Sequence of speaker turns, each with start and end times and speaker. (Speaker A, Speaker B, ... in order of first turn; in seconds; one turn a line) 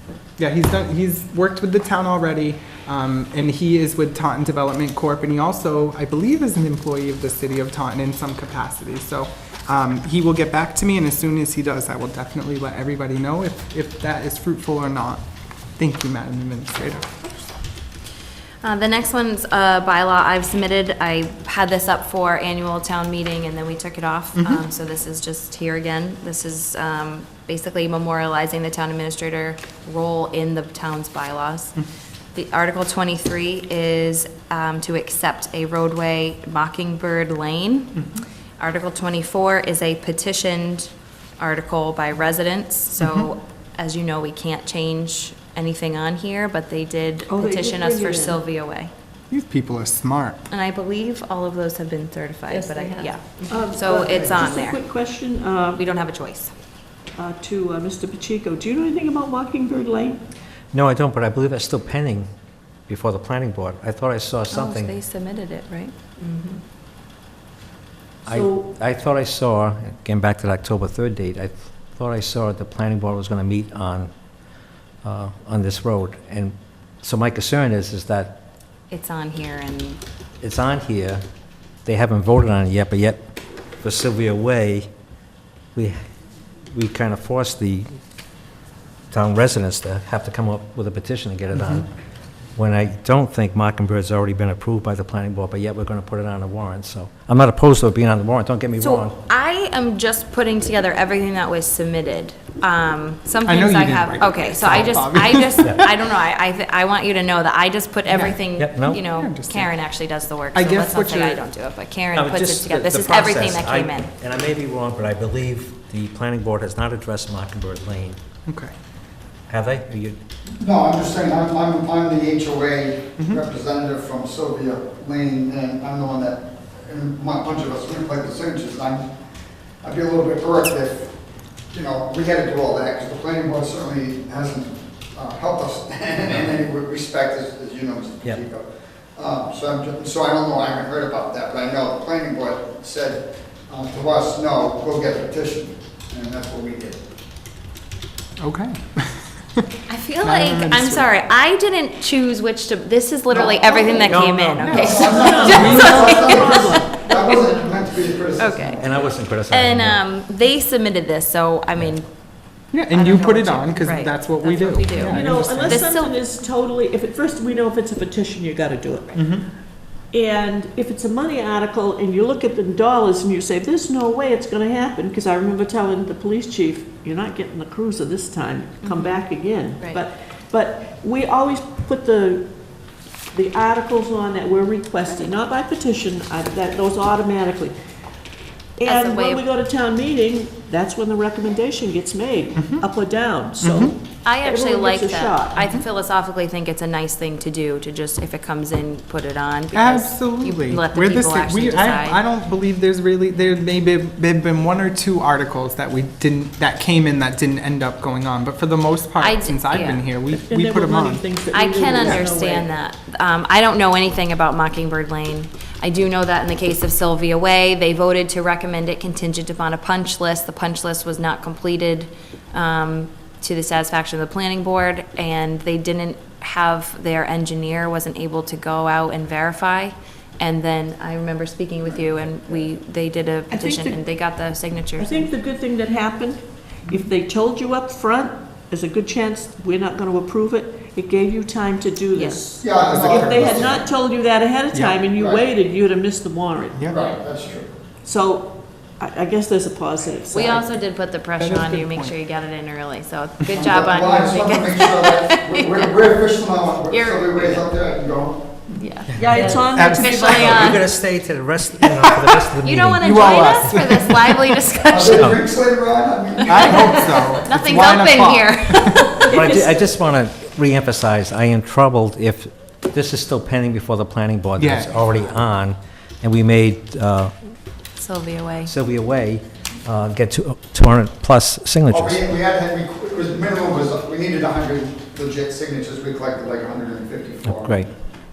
Speaker A: 0.4-15.2
Speaker A: 15.8-17.5
Speaker B: 18.6-31.8
Speaker A: 24.4-24.6
Speaker B: 32.3-48.9
Speaker A: 43.0-43.3
Speaker C: 47.3-48.4
Speaker A: 49.3-50.4
Speaker B: 50.5-54.8
Speaker C: 52.5-55.9
Speaker B: 55.8-56.5
Speaker C: 57.2-60.2
Speaker D: 60.7-62.3
Speaker D: 62.9-64.9
Speaker B: 64.5-66.6
Speaker D: 68.2-74.1
Speaker C: 68.3-68.7
Speaker D: 75.0-78.4
Speaker B: 78.9-80.0
Speaker D: 80.4-81.2
Speaker D: 81.8-83.2
Speaker D: 83.8-84.9
Speaker D: 86.7-87.9
Speaker D: 89.1-91.9
Speaker D: 92.5-99.1
Speaker B: 98.8-114.1
Speaker A: 103.5-105.8
Speaker A: 108.1-109.7
Speaker D: 108.6-109.0
Speaker A: 110.5-111.4
Speaker D: 112.1-118.2
Speaker A: 118.5-118.7
Speaker D: 119.5-120.2
Speaker E: 120.6-129.1
Speaker E: 129.8-131.1
Speaker E: 131.7-147.0
Speaker A: 148.4-149.6
Speaker B: 149.9-157.5
Speaker A: 150.2-151.1
Speaker E: 153.3-154.1
Speaker D: 154.1-155.9
Speaker A: 154.6-155.1
Speaker E: 154.7-158.9
Speaker C: 155.1-157.0
Speaker B: 158.3-158.8
Speaker D: 158.8-160.0
Speaker B: 159.5-162.1
Speaker A: 162.7-165.8
Speaker B: 162.9-166.2
Speaker C: 165.1-169.2
Speaker A: 169.1-169.4
Speaker C: 170.1-182.5
Speaker B: 178.8-179.2
Speaker C: 183.3-187.7
Speaker C: 188.8-195.7
Speaker B: 188.8-189.4
Speaker A: 192.6-192.8
Speaker A: 193.6-193.9
Speaker B: 194.2-202.2
Speaker A: 199.7-211.3
Speaker B: 209.2-210.1
Speaker C: 210.3-212.7
Speaker B: 211.5-235.3
Speaker A: 212.0-212.2
Speaker E: 231.8-232.5
Speaker C: 233.5-234.0
Speaker C: 235.0-246.9
Speaker B: 242.1-242.4
Speaker E: 242.6-243.8
Speaker A: 242.9-243.8
Speaker A: 244.7-245.0
Speaker E: 245.1-245.4
Speaker E: 246.9-247.7
Speaker C: 248.0-250.7
Speaker B: 250.3-255.9
Speaker A: 251.4-252.1
Speaker E: 253.5-258.6
Speaker B: 256.9-257.7
Speaker B: 258.8-260.9
Speaker C: 259.1-260.8
Speaker A: 259.4-260.7
Speaker D: 260.3-263.2
Speaker B: 262.6-265.4
Speaker A: 263.0-264.3
Speaker E: 264.9-267.2
Speaker B: 266.3-269.6
Speaker A: 266.5-268.9
Speaker D: 269.3-277.3
Speaker C: 269.3-269.6
Speaker A: 274.6-275.0
Speaker B: 278.0-278.7
Speaker D: 278.6-282.2
Speaker E: 281.9-287.8
Speaker D: 287.4-287.9